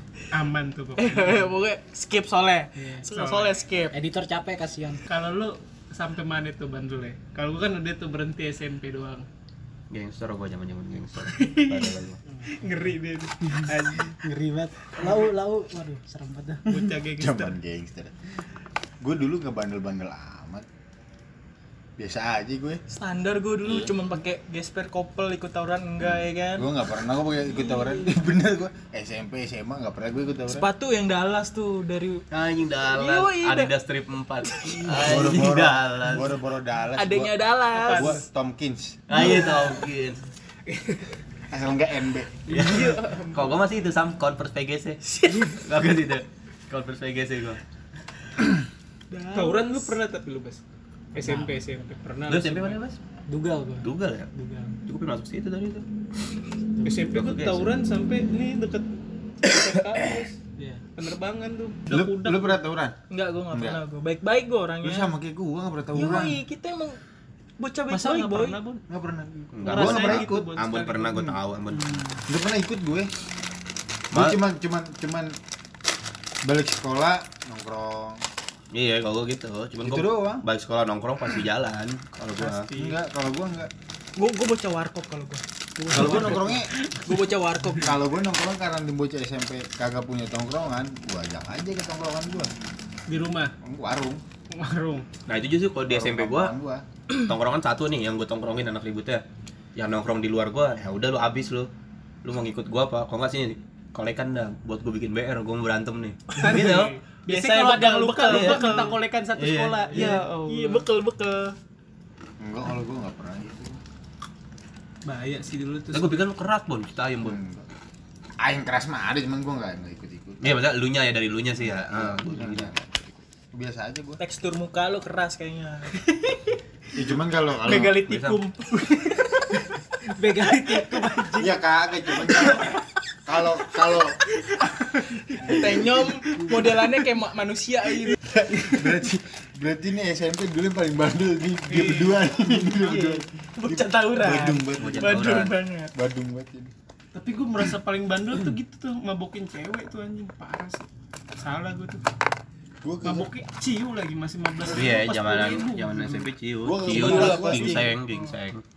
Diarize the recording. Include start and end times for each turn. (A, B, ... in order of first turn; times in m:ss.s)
0:00.3-0:01.5 A
0:01.0-0:03.9 B
0:02.8-0:03.0 C
0:03.1-0:03.6 A
0:03.9-0:05.0 C
0:05.1-0:09.3 A
0:09.9-0:12.2 D
0:11.3-0:12.0 A
0:12.5-0:14.2 A
0:14.2-0:17.0 C
0:15.0-0:15.3 A
0:16.7-0:17.6 A
0:17.2-0:18.1 E
0:19.0-0:20.7 E
0:22.0-0:22.8 E
0:22.9-0:26.7 B
0:23.6-0:24.0 E
0:26.0-0:30.7 E
0:27.7-0:28.1 B
0:30.5-0:32.2 B
0:32.3-0:36.3 D
0:32.8-0:33.7 B
0:34.4-0:35.2 B
0:34.9-0:37.4 E
0:37.0-0:38.2 B
0:37.7-0:38.2 A
0:37.9-0:39.0 E
0:39.1-0:40.2 D
0:39.2-0:39.5 B
0:40.7-0:41.1 A
0:41.5-0:42.5 E
0:42.5-0:43.6 A
0:42.5-0:47.6 D
0:45.1-0:45.6 B
0:49.1-0:49.9 B
0:49.3-0:50.6 A
0:51.1-0:52.8 A
0:51.2-0:51.6 C
0:52.3-0:53.0 D
0:53.3-0:54.8 C
0:53.8-0:54.3 D
0:54.9-0:55.9 D
0:56.8-1:00.4 A
0:57.0-0:57.7 D
1:00.6-1:00.8 C
1:01.0-1:02.6 A
1:01.9-1:03.0 E
1:03.1-1:05.1 B
1:03.5-1:03.8 E
1:04.8-1:06.4 E
1:05.9-1:07.0 B
1:07.6-1:08.6 B
1:07.9-1:08.8 A
1:08.9-1:10.5 E
1:09.5-1:12.1 D
1:09.6-1:11.2 A
1:12.3-1:13.1 E
1:14.1-1:14.4 D
1:14.1-1:15.4 E
1:16.4-1:18.2 E
1:18.7-1:22.7 D
1:19.8-1:20.4 E
1:22.4-1:23.0 A
1:22.7-1:23.7 E
1:24.2-1:28.0 B
1:25.9-1:26.7 E
1:25.9-1:26.4 D
1:26.0-1:26.4 A
1:27.8-1:32.5 E
1:33.1-1:33.5 A
1:33.6-1:34.2 E
1:34.5-1:35.1 A
1:35.3-1:36.5 D
1:35.9-1:36.8 E
1:37.2-1:39.2 D
1:39.8-1:41.7 D
1:42.2-1:47.0 D
1:46.4-1:50.9 A
1:46.4-1:46.7 B
1:47.3-1:49.0 B
1:47.9-1:50.2 D
1:49.9-1:51.6 B
1:52.4-1:53.8 E
1:55.0-1:56.2 A
1:55.9-1:57.4 D
1:57.2-1:57.7 E
1:58.4-2:00.6 E
2:00.4-2:03.0 D
2:01.6-2:02.8 E
2:03.5-2:04.2 E
2:04.2-2:06.0 B
2:07.0-2:08.0 E
2:07.6-2:09.3 A
2:07.8-2:08.4 D
2:10.2-2:11.5 C
2:10.2-2:11.5 B
2:11.4-2:14.2 E
2:12.3-2:12.6 B
2:15.4-2:18.2 B
2:15.4-2:16.7 E
2:18.2-2:25.3 E
2:21.7-2:22.3 A
2:22.6-2:25.9 B
2:24.6-2:25.6 D
2:25.9-2:26.7 E
2:27.1-2:32.0 A
2:32.8-2:33.3 E
2:33.0-2:36.3 A
2:34.7-2:38.6 D
2:36.6-2:37.9 E
2:36.9-2:38.3 B